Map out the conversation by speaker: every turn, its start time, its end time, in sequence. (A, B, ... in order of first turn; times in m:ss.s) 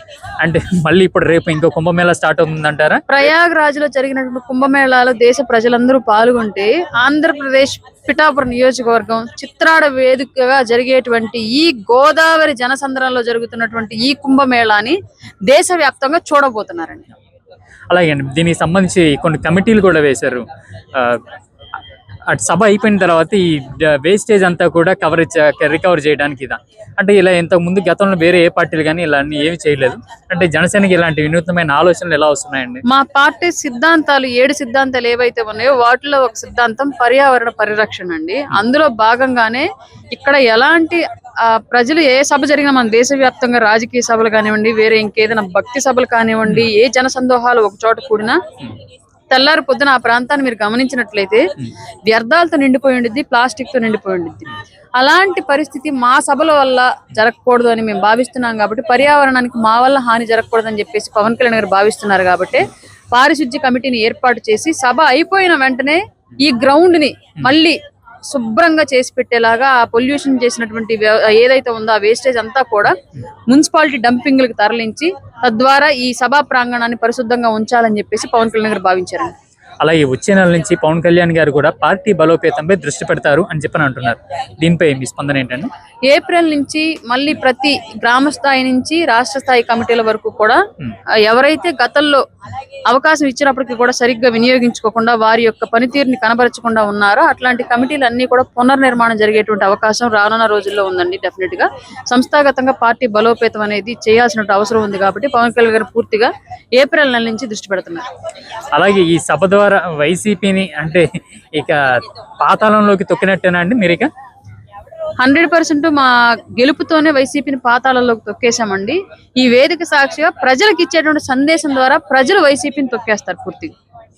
0:00.4-0:03.0 A
0:03.1-0:17.1 B
0:17.9-0:21.2 A
0:22.3-0:32.8 A
0:32.8-0:48.4 B
0:49.3-0:51.4 B
0:52.1-1:12.9 B
1:13.5-1:19.4 B
1:19.8-1:25.7 A
1:26.1-1:30.6 B
1:31.2-1:32.2 B
1:32.9-1:48.1 B
1:48.7-1:54.1 A
1:55.2-2:03.7 B